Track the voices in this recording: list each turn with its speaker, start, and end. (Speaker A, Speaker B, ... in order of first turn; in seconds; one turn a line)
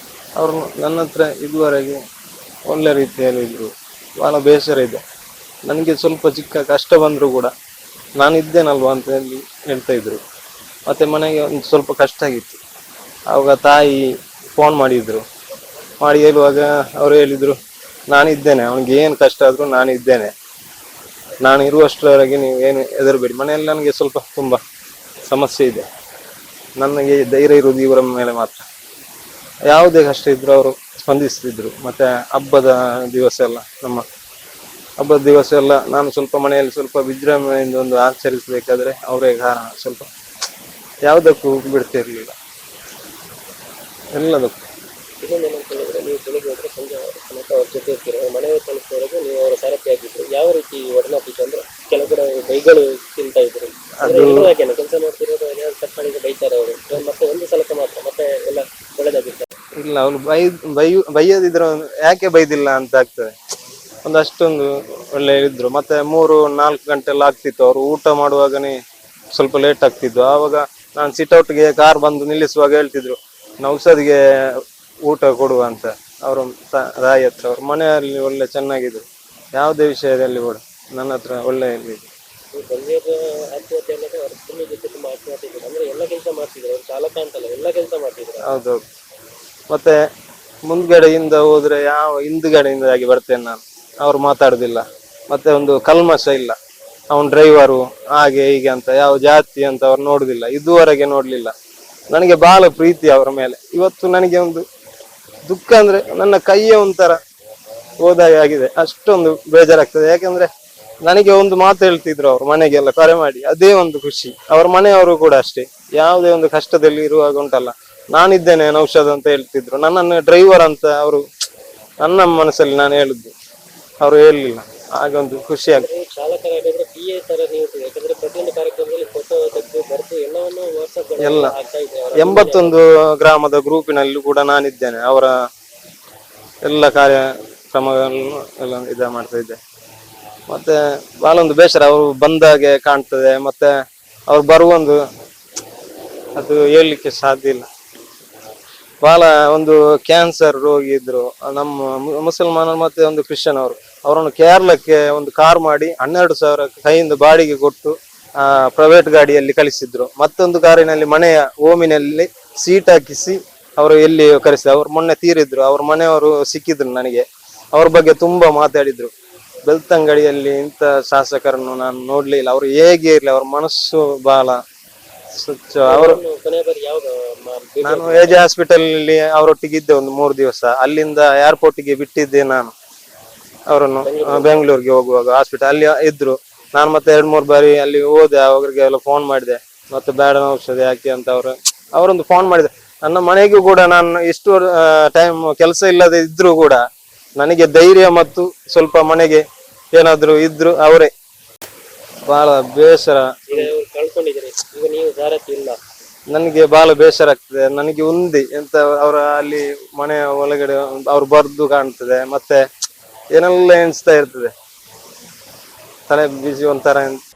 Speaker A: 0.4-2.0
Speaker A: 2.7-5.0
Speaker A: 5.6-7.5
Speaker A: 8.2-10.2
Speaker A: 10.9-12.6
Speaker A: 13.3-15.2
Speaker A: 16.0-17.6
Speaker A: 18.1-20.3
Speaker A: 21.4-24.6
Speaker A: 25.3-25.9
Speaker A: 26.8-28.6
Speaker A: 29.7-34.0
Speaker A: 35.0-40.1
Speaker A: 41.0-42.3
Speaker A: 44.1-44.6
Speaker B: 45.2-59.5
Speaker A: 54.0-54.5
Speaker A: 59.8-63.3
Speaker A: 64.0-68.7
Speaker A: 69.3-74.2
Speaker A: 75.0-82.1
Speaker B: 82.5-88.5
Speaker A: 88.5-88.8
Speaker A: 90.7-96.5
Speaker A: 97.1-101.5
Speaker A: 102.1-104.6
Speaker A: 105.5-107.2
Speaker A: 108.0-110.5
Speaker A: 111.0-121.2
Speaker A: 122.0-123.3
Speaker A: 124.0-125.8
Speaker B: 125.7-132.8
Speaker A: 131.2-131.5
Speaker A: 132.2-135.3
Speaker A: 136.6-139.6
Speaker A: 140.5-143.7
Speaker A: 144.3-145.0
Speaker A: 146.3-147.7
Speaker A: 149.0-169.1
Speaker A: 169.6-174.6
Speaker A: 175.4-176.2
Speaker B: 175.8-178.4
Speaker A: 177.8-182.7
Speaker A: 183.7-196.8
Speaker B: 184.0-184.6
Speaker A: 197.4-199.4
Speaker A: 199.9-201.1
Speaker A: 202.3-203.7
Speaker B: 203.5-205.8
Speaker A: 206.3-212.6
Speaker A: 213.3-214.5
Speaker A: 216.1-217.2